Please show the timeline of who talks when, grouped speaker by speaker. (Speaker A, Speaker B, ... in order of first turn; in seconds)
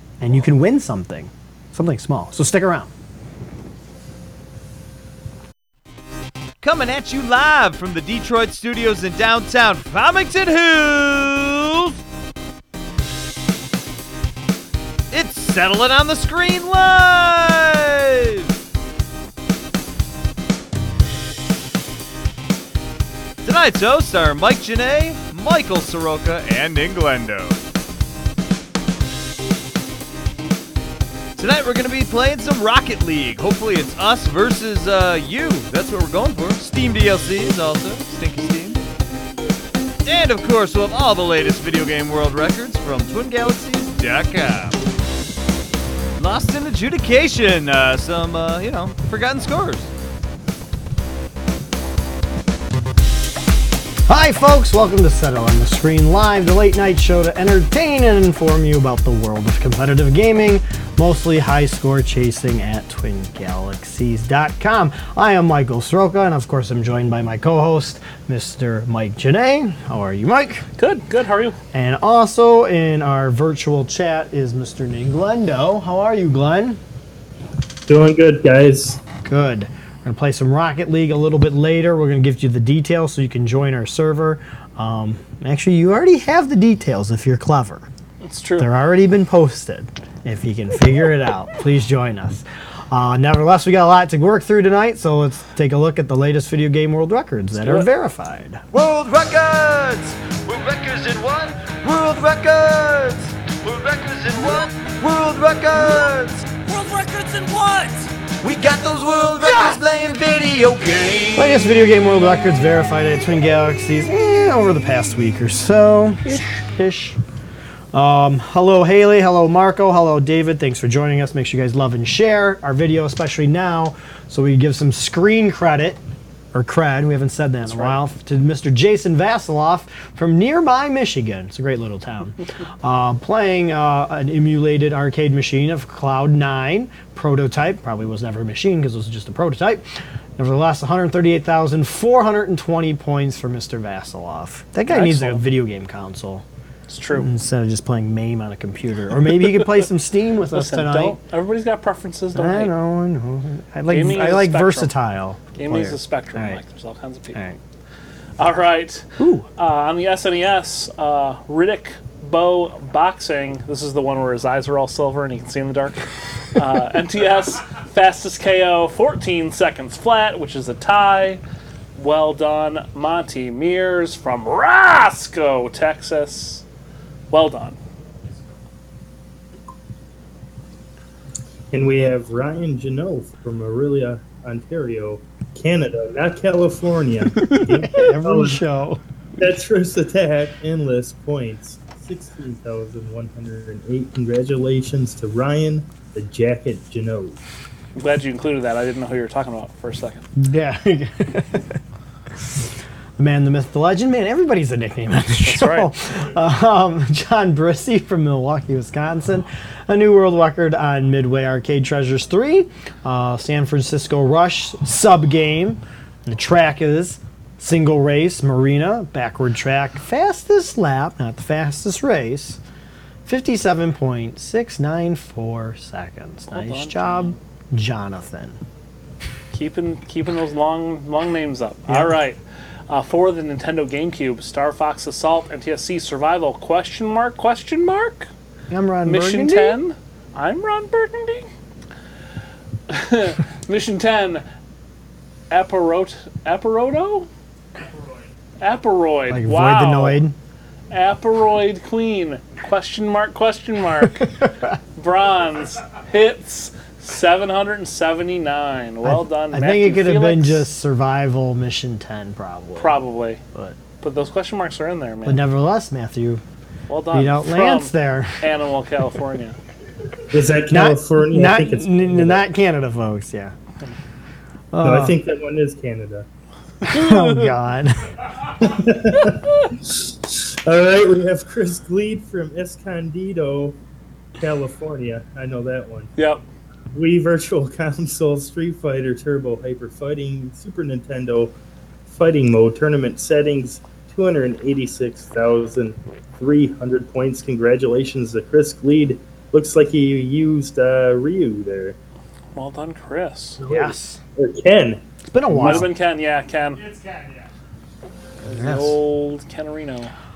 Speaker A: 0.2-2.9, 54.1-70.7, 71.7-76.8, 79.2-87.9, 88.6-98.6, 111.3-117.2, 117.9-126.0, 126.5-139.9, 140.4-146.4, 147.1-151.2, 152.3-156.6, 159.2-159.5, 187.7-189.0, 200.4-201.8, 203.2-222.6, 223.3-228.6, 231.9-232.2, 238.7-239.8, 249.3-250.3, 259.0-263.0, 265.2-266.4, 267.1-268.4, 270.7-273.5, 274.7-275.1, 276.8-278.1, 303.6-304.2, 305.3-305.9, 308.5-309.0
Speaker B: 6.6-12.0, 15.1-18.5, 23.4-27.6, 31.4-38.8, 40.0-44.8, 46.2-49.9, 98.7-111.6
Speaker C: 70.8-71.6, 88.2-88.7, 97.6-97.9, 127.7-128.0, 144.9-145.4, 146.9-147.3, 150.5-152.7, 153.9-154.9, 155.6-157.4, 158.4-166.0, 166.6-171.4, 172.0-176.6, 177.3-177.8, 197.9-200.3, 205.4-205.9, 226.5-227.4, 229.5-238.3, 239.1-241.5, 242.9-244.4, 245.5-247.3, 248.6-250.2, 250.9-254.3, 255.0-260.7, 262.8-263.4, 264.0-265.4, 266.9-269.6, 276.8-277.5, 286.2-286.4, 302.6-303.6, 305.6-306.9, 308.5-310.1
Speaker D: 77.9-79.0, 181.7-188.6, 189.4-197.4, 270.3-272.4, 274.8-276.3, 278.6-283.8, 284.4-286.1, 286.9-291.6, 292.1-302.0, 303.6-305.0